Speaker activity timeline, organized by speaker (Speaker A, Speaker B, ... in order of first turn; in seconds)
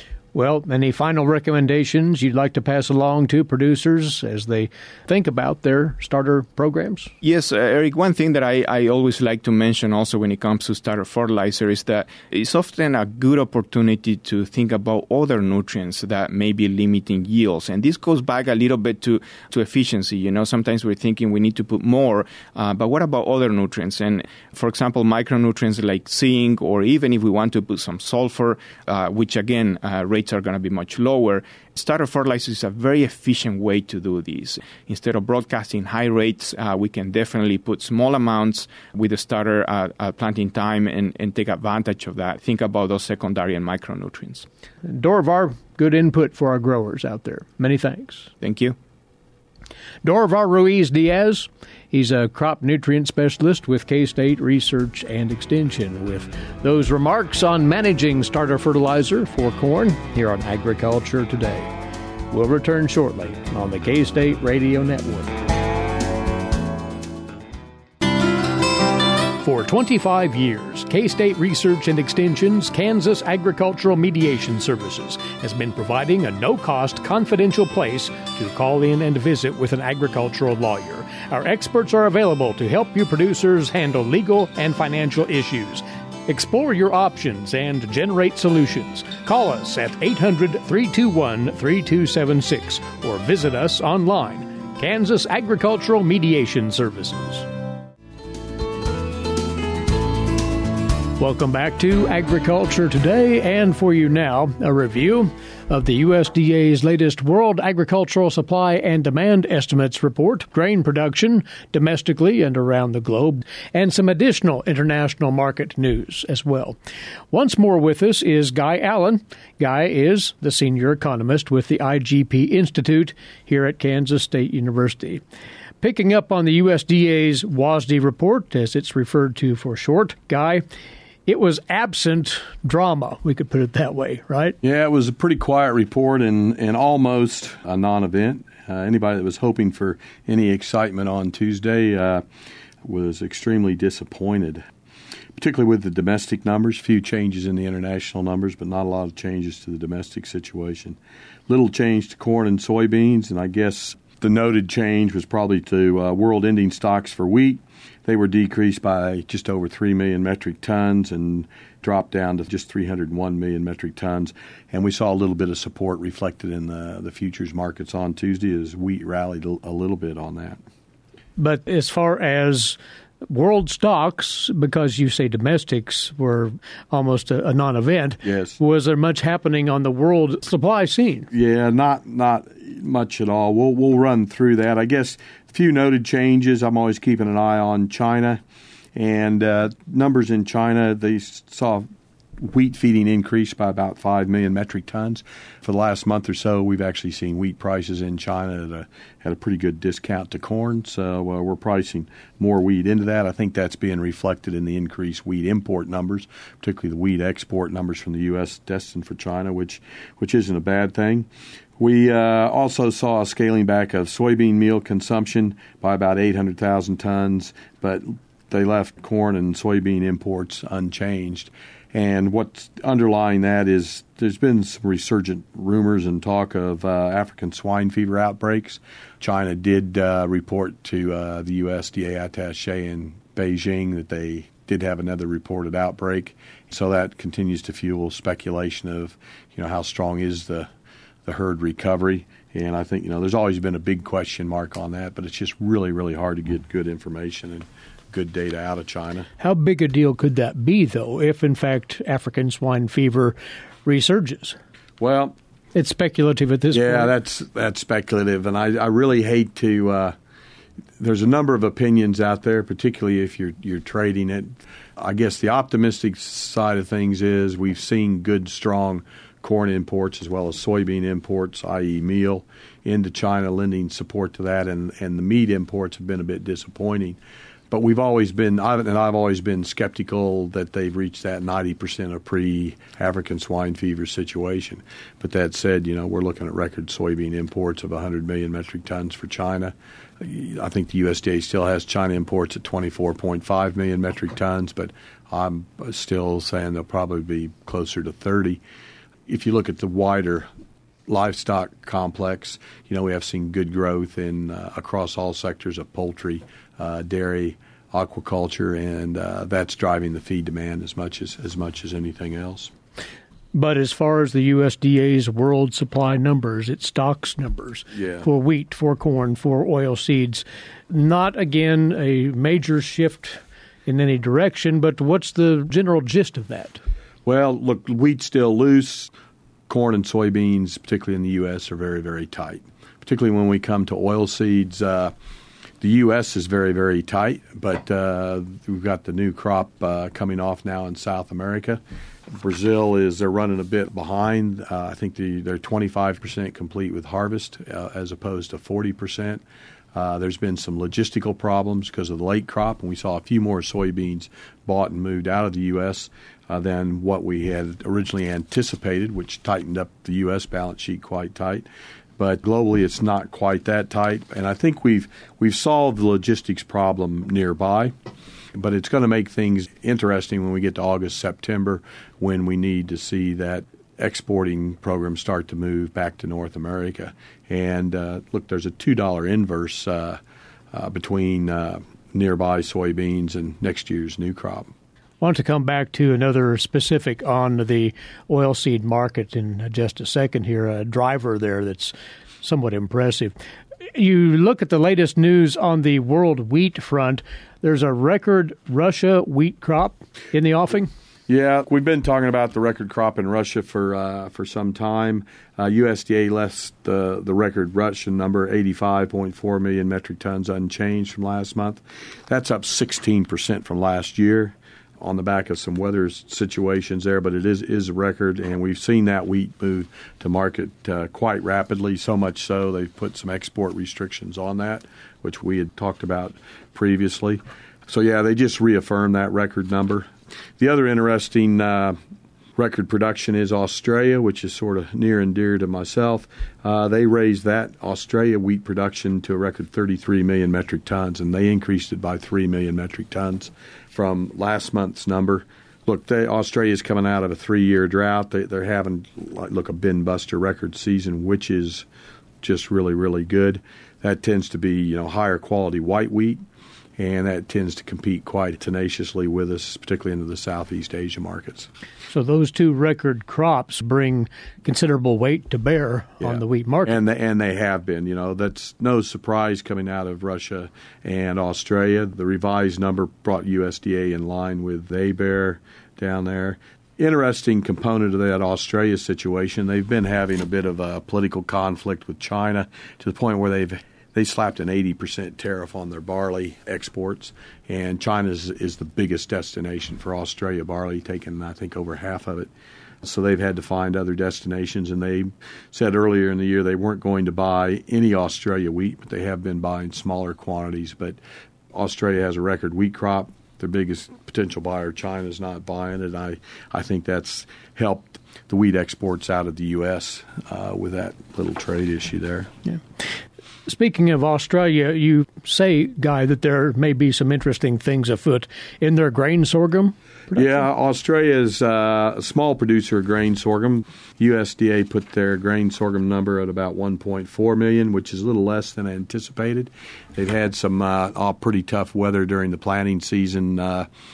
Speaker A: 0.3-7.1, 44.8-48.3, 50.0-61.7, 62.3-65.3, 69.4-97.5, 101.2-116.8, 117.3-125.2, 125.8-130.6, 131.2-134.6, 171.4-181.3, 249.4-254.6, 255.7-257.1, 313.5-326.8, 385.2-393.3, 393.9-400.9, 462.1-467.0, 513.6-520.5
Speaker B: 7.2-44.5, 48.4-48.8
Speaker C: 134.6-142.2, 142.8-144.6, 145.3-170.6, 178.2-178.6, 181.3-188.4, 188.9-191.9, 192.4-211.3, 211.8-240.7, 241.2-249.3, 255.0-255.3, 256.7-260.1, 261.0-277.2, 277.7-298.6, 299.3-300.5, 301.1-312.7, 317.9-318.2, 327.2-329.1, 329.7-335.1, 335.8-349.4, 349.9-361.7, 362.2-367.9, 368.5-380.2, 380.7-384.7, 401.3-432.0, 432.6-451.9, 452.4-456.4, 457.0-461.7, 466.2-492.5, 493.0-501.2, 501.7-512.5, 520.3-533.9